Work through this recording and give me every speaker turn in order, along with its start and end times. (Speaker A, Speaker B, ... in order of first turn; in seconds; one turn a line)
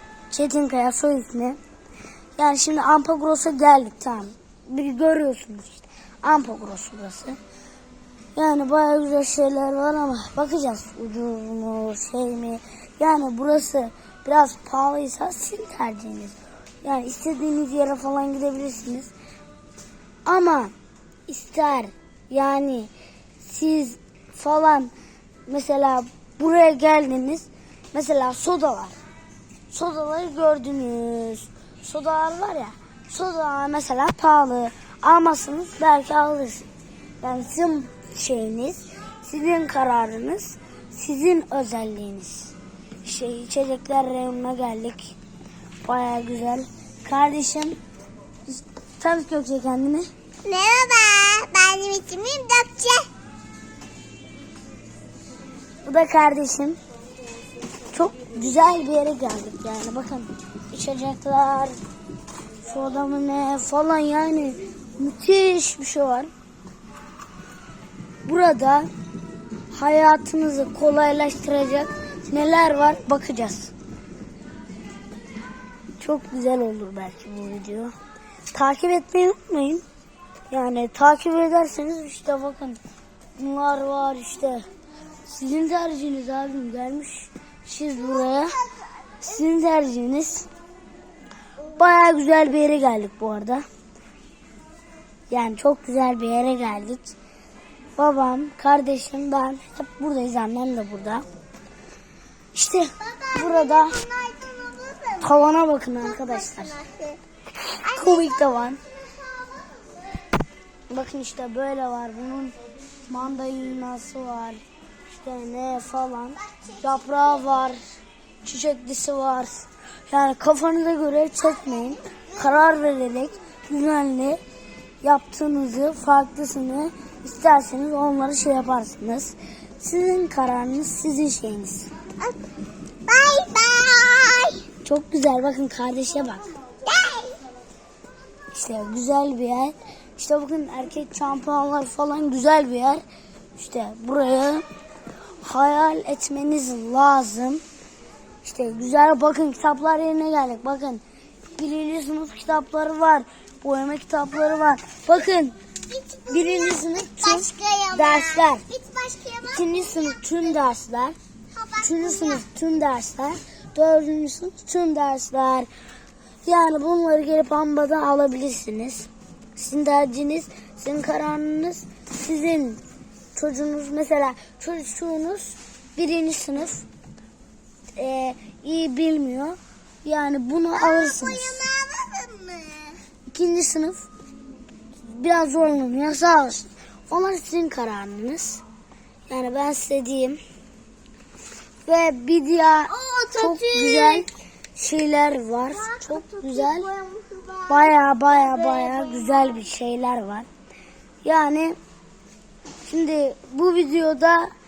Speaker A: 0.3-1.6
Speaker A: 2.4-7.4
Speaker A: 8.3-19.1
Speaker A: 20.2-20.7
Speaker A: 21.3-24.9
Speaker A: 25.5-29.0
Speaker A: 29.7-36.7
Speaker A: 37.2-42.5
Speaker A: 43.0-45.2
Speaker A: 45.8-47.8
Speaker A: 48.5-50.1
Speaker B: 50.4-53.1
Speaker A: 55.8-56.8
Speaker A: 57.9-61.8
Speaker A: 62.6-66.3
Speaker A: 68.2-68.9
Speaker A: 69.7-73.7
Speaker A: 76.0-77.9
Speaker A: 78.5-79.8
Speaker A: 80.5-82.8
Speaker A: 83.3-84.7
Speaker A: 85.3-88.6
Speaker A: 89.2-90.5
Speaker A: 91.7-93.6
Speaker A: 95.3-97.2
Speaker A: 98.0-101.2
Speaker A: 102.5-104.0
Speaker B: 103.1-105.3
Speaker A: 105.2-106.8
Speaker B: 106.2-107.2
Speaker A: 107.7-108.8
Speaker B: 107.8-108.6
Speaker B: 109.1-109.9
Speaker A: 110.9-112.5
Speaker A: 113.0-117.8
Speaker A: 118.4-124.4
Speaker A: 125.0-131.9
Speaker B: 133.1-134.7
Speaker A: 134.8-136.5
Speaker B: 136.8-137.4
Speaker A: 138.5-143.0
Speaker A: 143.6-144.6
Speaker A: 145.4-147.6
Speaker A: 148.4-151.0
Speaker A: 151.6-155.6
Speaker B: 155.9-160.2
Speaker A: 156.3-158.6
Speaker A: 159.4-161.2
Speaker B: 161.5-162.4
Speaker A: 161.8-165.7
Speaker A: 166.4-172.8
Speaker A: 173.3-176.8
Speaker A: 177.9-181.6
Speaker B: 180.8-183.0
Speaker A: 183.2-184.1
Speaker A: 185.0-188.6
Speaker A: 189.3-190.4
Speaker A: 191.8-196.9
Speaker B: 192.9-194.3
Speaker B: 195.8-197.9
Speaker A: 197.7-200.5
Speaker B: 198.5-199.1
Speaker A: 201.2-201.8
Speaker A: 202.8-204.5